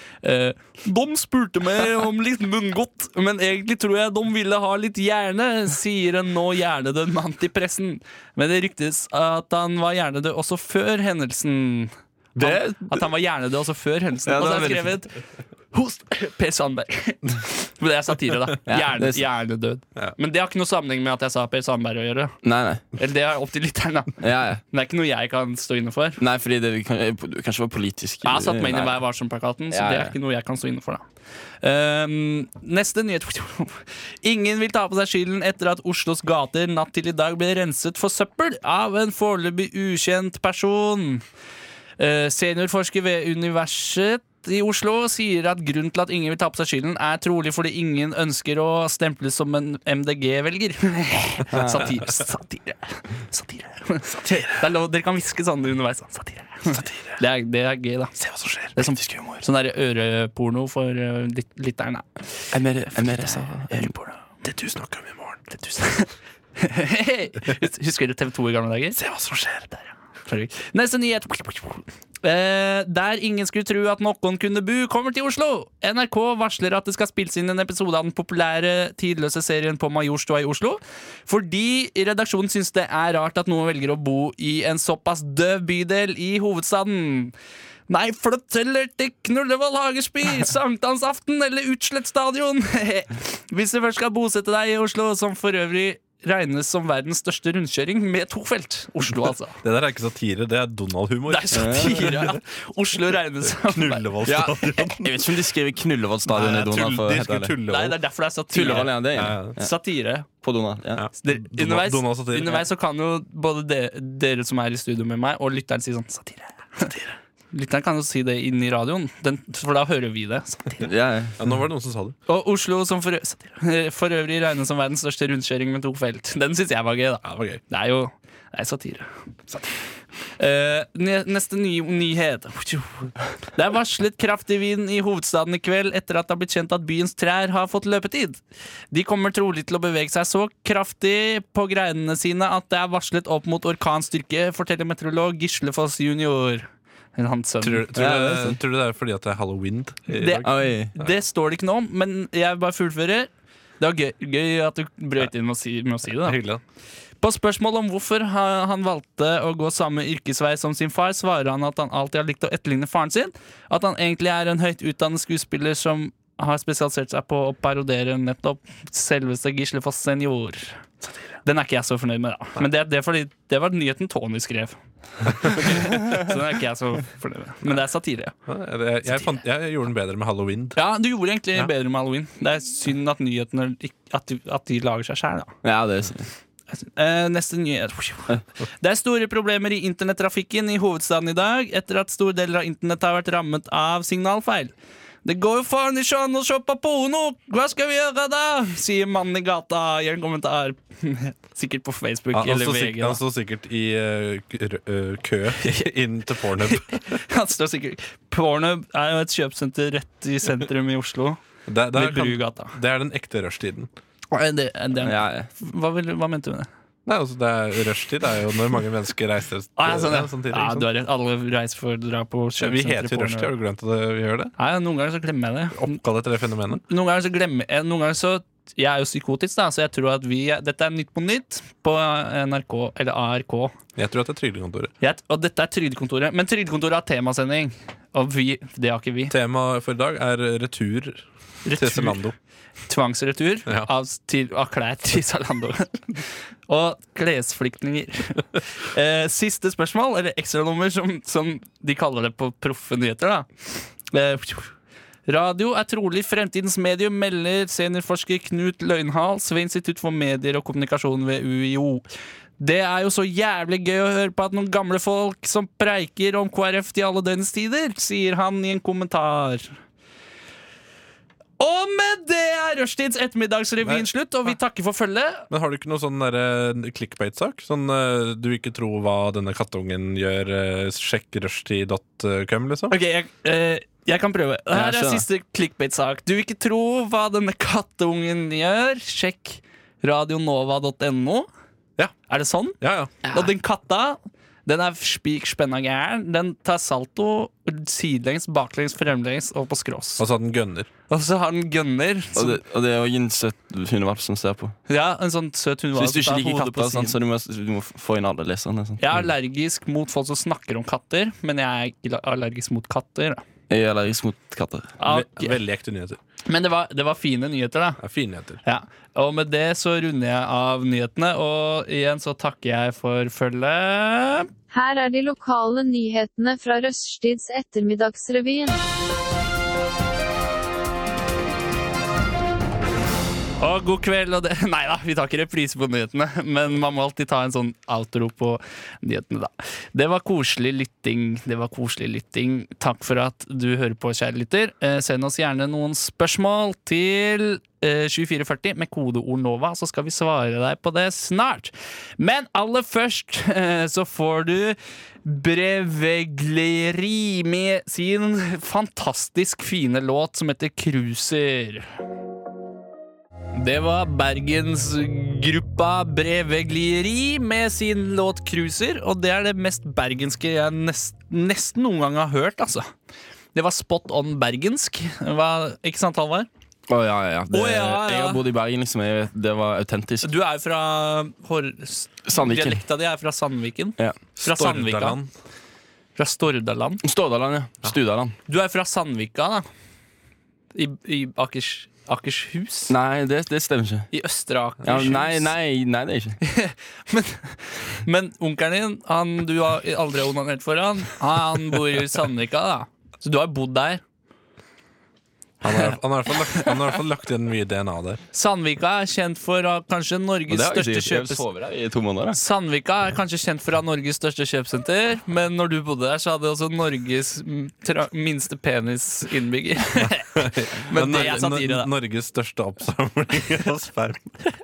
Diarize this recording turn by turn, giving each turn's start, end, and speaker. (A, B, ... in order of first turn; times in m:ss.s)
0:00.2-0:15.1 A
0:12.4-0:13.0 B
0:14.2-0:15.0 B
0:15.7-0:22.3 A
0:18.7-0:19.2 B
0:22.4-0:22.8 B
0:23.0-0:24.1 A
0:24.2-0:24.6 B
0:24.7-0:26.2 A
0:26.2-0:29.0 B
0:28.2-0:31.0 A
0:29.7-0:30.1 B
0:31.6-0:41.2 A
0:42.0-0:58.2 A
0:51.5-0:51.9 B
0:58.2-0:58.8 C
0:58.7-1:02.1 A
0:59.0-0:59.4 B
1:02.5-1:03.9 B
1:02.9-1:04.2 A
1:04.4-1:05.4 C
1:05.5-1:09.0 A
1:09.0-1:09.8 C
1:10.3-1:27.3 A
1:27.9-1:39.6 A
1:39.0-1:42.4 C
1:41.3-1:44.1 A
1:41.5-1:42.3 B
1:43.4-1:45.2 C
1:44.2-1:47.5 B
1:46.3-1:48.0 C
1:47.7-1:50.2 A
1:48.5-1:49.7 B
1:48.6-1:49.5 C
1:50.4-1:51.0 B
1:51.0-1:52.6 C
1:51.2-2:00.9 A
2:00.8-2:01.3 B
2:01.4-2:02.2 C
2:02.3-2:09.0 A
2:07.2-2:07.6 C
2:10.4-2:18.4 A
2:18.9-2:27.9 A
2:27.6-2:31.1 C
2:28.0-2:28.6 B
2:30.1-2:36.4 A
2:30.4-2:30.9 B
2:36.2-2:36.6 C
2:37.2-2:50.8 A
2:51.4-2:58.3 A
2:58.5-3:00.8 C
3:00.7-3:05.5 A
3:05.6-3:06.3 B
3:06.7-3:14.7 A
3:15.2-3:23.2 A
3:22.3-3:27.0 C
3:26.6-3:31.4 A
3:31.7-3:33.9 C
3:31.9-3:32.8 A
3:34.3-3:36.7 A
3:35.0-3:35.5 B
3:37.0-3:40.9 C
3:39.8-3:43.5 A
3:42.6-3:44.5 C
3:44.6-3:46.0 A
3:45.8-3:46.8 C
3:46.9-3:53.8 A
3:54.0-3:54.9 C
3:55.0-3:59.3 A
3:59.3-4:02.3 C
4:01.6-4:02.2 A
4:02.9-4:14.7 A
4:15.3-4:22.0 A
4:22.6-4:29.7 A
4:31.6-4:35.5 A
4:35.5-4:42.9 C
4:42.9-4:51.5 A
4:44.7-4:45.2 B
4:52.3-5:00.2 A
4:52.8-4:53.1 C
5:00.2-5:00.9 C
5:01.1-5:02.6 A
5:02.4-5:04.8 B
5:04.9-5:07.1 A
5:05.9-5:09.0 B
5:09.0-5:13.4 A
5:13.7-5:14.9 B
5:15.0-5:15.6 A
5:15.0-5:16.2 C
5:16.5-5:18.0 A
5:18.0-5:18.6 C
5:18.6-5:24.5 A
5:24.7-5:28.8 D
5:33.6-6:01.8 A
6:03.5-6:12.9 A
6:13.5-6:16.5 A
6:16.9-6:20.3 B
6:17.5-6:18.4 A
6:20.2-6:25.2 A
6:22.3-6:22.8 B
6:24.4-6:25.3 C
6:26.2-6:27.0 A
6:27.0-6:28.3 B
6:28.5-6:29.6 A
6:30.7-6:32.9 A
6:32.9-6:34.1 B
6:34.1-6:35.5 A
6:34.8-6:36.4 B
6:36.4-6:44.0 A
6:45.6-6:48.2 C
6:48.3-6:51.4 A
6:50.5-6:52.4 B
6:52.3-7:00.3 A
7:00.3-7:04.4 C
7:00.9-7:01.9 A